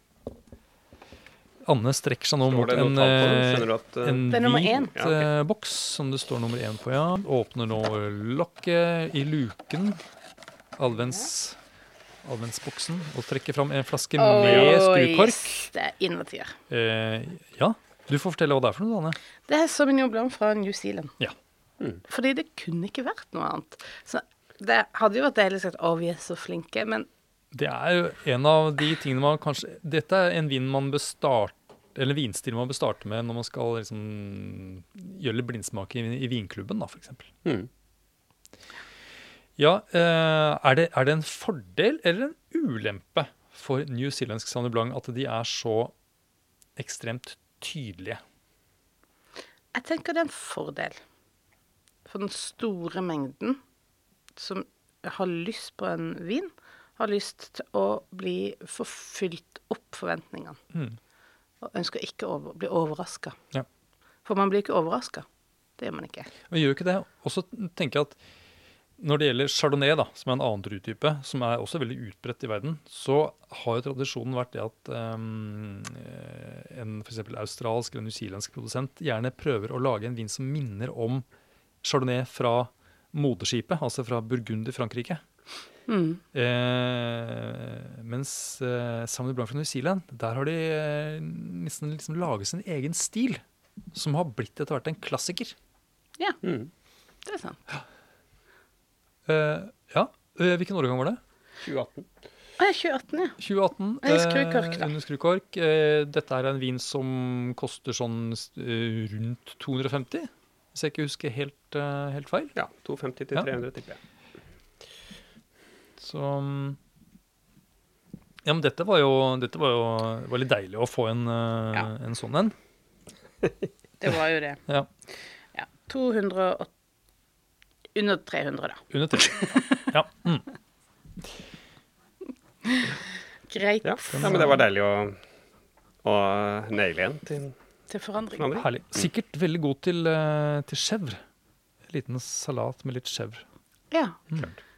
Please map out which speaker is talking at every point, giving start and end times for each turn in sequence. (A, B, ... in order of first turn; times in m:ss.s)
0:01.6-0:10.0 A
0:02.4-0:04.4 B
0:04.3-0:04.9 C
0:04.9-0:05.3 B
0:10.8-0:11.6 A
0:12.2-0:15.7 A
0:14.2-0:16.6 C
0:14.4-0:14.7 B
0:16.7-0:19.2 A
0:19.5-0:21.2 C
0:22.1-0:27.1 C
0:27.5-0:37.3 A
0:39.6-0:45.9 A
0:46.8-0:48.2 A
0:49.7-0:51.0 C
0:52.0-0:53.6 C
0:54.4-1:00.6 C
1:01.6-1:03.4 C
1:04.2-1:05.2 C
1:05.8-1:06.3 C
1:06.5-1:08.2 A
1:09.0-1:21.2 A
1:21.8-1:25.2 A
1:25.9-1:26.2 C
1:26.3-1:33.4 A
1:33.9-1:35.5 A
1:36.4-1:36.7 B
1:37.2-1:37.6 C
1:39.2-1:41.2 A
1:41.6-1:42.1 B
1:42.6-1:43.4 C
1:43.4-1:52.5 A
1:44.0-1:44.9 C
1:52.5-1:54.0 B
1:56.0-1:56.8 A
1:58.4-2:02.5 A
2:04.0-2:04.6 C
2:05.5-2:06.7 C
2:07.9-2:08.8 C
2:08.9-2:10.5 A
2:12.6-2:14.4 C
2:13.8-2:15.2 B
2:14.1-2:14.7 A
2:16.0-2:17.5 B
2:17.9-2:18.5 C
2:18.4-2:19.0 B
2:18.6-2:21.2 A
2:21.9-2:23.4 A
2:23.9-2:24.2 C
2:24.3-2:24.5 A